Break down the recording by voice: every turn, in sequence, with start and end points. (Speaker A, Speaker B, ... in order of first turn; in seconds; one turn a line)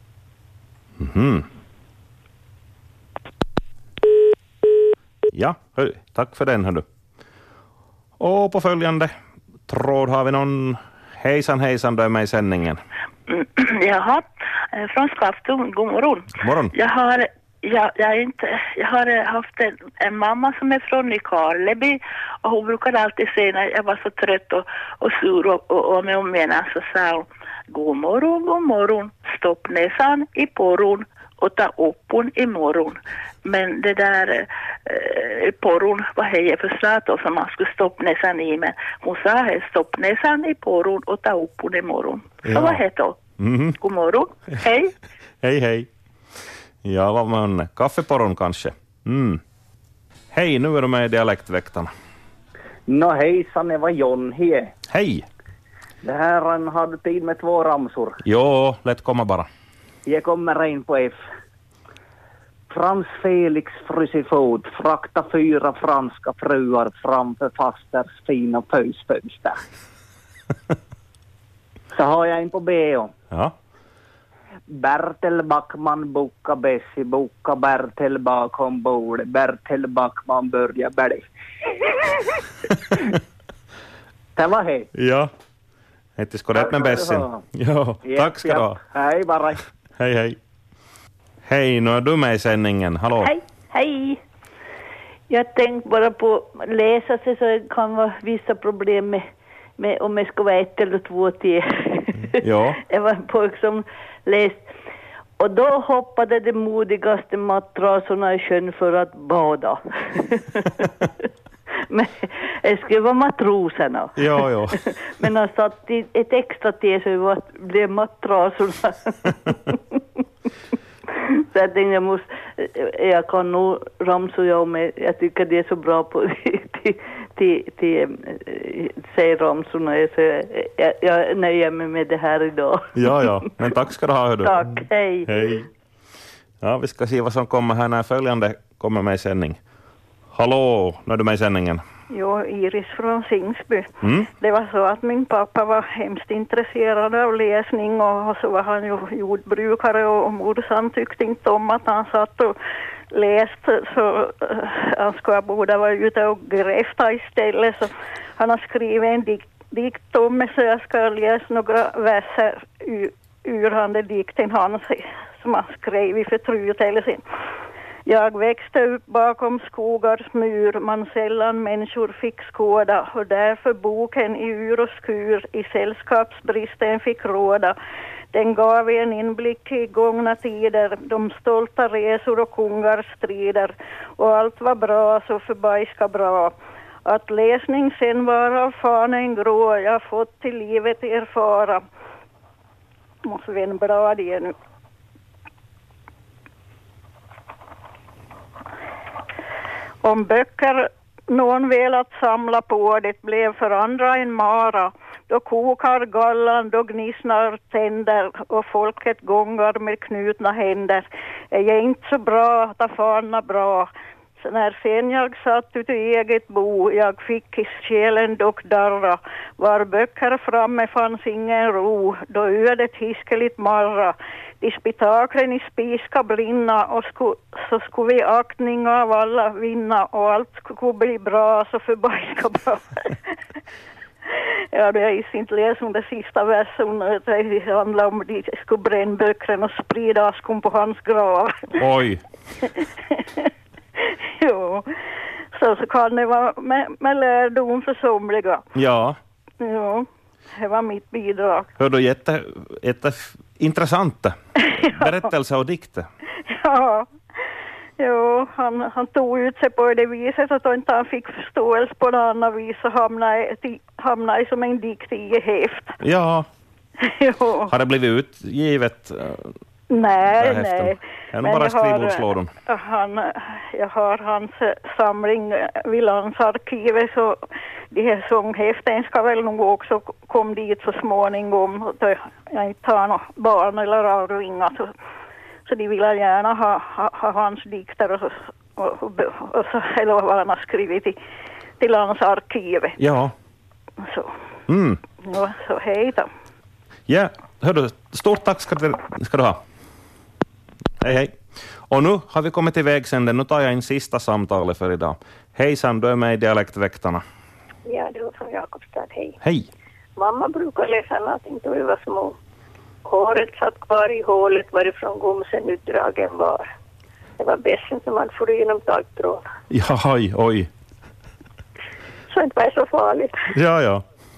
Speaker A: 1.0-1.5
Speaker A: 5.3-6.9
Speaker A: 8.2-9.1
Speaker A: 9.7-12.8
Speaker B: 13.3-43.2
Speaker A: 16.4-16.7
Speaker A: 42.5-42.8
Speaker A: 43.4-43.8
Speaker B: 43.8-44.9
Speaker A: 45.4-45.9
Speaker A: 46.8-49.4
Speaker A: 50.3-51.9
Speaker C: 52.9-54.7
Speaker A: 54.9-55.3
Speaker C: 56.0-58.2
Speaker A: 58.2-59.5
Speaker C: 60.1-61.3
Speaker C: 62.7-69.6
Speaker C: 72.0-73.1
Speaker C: 74.7-81.3
Speaker C: 84.4-84.9
Speaker A: 84.9-85.3
Speaker A: 86.2-88.8
Speaker C: 86.5-87.4
Speaker C: 88.0-89.6
Speaker A: 90.0-90.4
Speaker A: 91.5-93.3
Speaker D: 95.4-99.2
Speaker D: 99.8-102.1
Speaker A: 102.4-102.8
Speaker D: 106.6-107.7
Speaker D: 108.2-109.7
Speaker A: 114.2-114.8
Speaker D: 116.0-118.3
Speaker D: 121.5-122.2
Speaker D: 122.8-133.0
Speaker A: 132.9-135.7
Speaker D: 134.8-135.3
Speaker A: 136.6-139.6
Speaker A: 140.3-141.8
Speaker E: 142.1-152.6
Speaker A: 144.0-144.3
Speaker E: 153.1-167.2
Speaker E: 168.1-177.8
Speaker E: 178.3-186.5
Speaker E: 187.1-191.8
Speaker E: 193.3-194.5
Speaker E: 200.0-233.2
Speaker E: 234.7-241.8
Speaker A: 241.8-242.2
Speaker E: 243.1-243.5
Speaker E: 244.0-244.9
Speaker E: 245.6-248.6
Speaker A: 248.8-249.2
Speaker E: 249.6-251.7
Speaker A: 251.8-254.4
Speaker E: 254.8-255.2
Speaker A: 254.9-256.1
Speaker E: 256.5-257.1
Speaker E: 258.0-266.0
Speaker A: 266.0-266.5
Speaker E: 267.0-267.7
Speaker A: 267.7-269.5
Speaker E: 269.9-277.4
Speaker A: 270.4-272.5
Speaker E: 277.9-284.9
Speaker E: 285.7-291.2
Speaker E: 291.8-293.0
Speaker A: 293.0-293.3
Speaker E: 294.0-294.3
Speaker A: 294.7-295.0
Speaker E: 295.2-296.3
Speaker A: 297.1-299.6
Speaker A: 301.0-307.2
Speaker F: 307.9-309.4
Speaker A: 309.4-309.7
Speaker F: 310.2-312.4
Speaker F: 313.1-316.7
Speaker F: 317.4-319.4
Speaker A: 319.7-320.7
Speaker F: 322.3-323.3
Speaker A: 323.5-324.0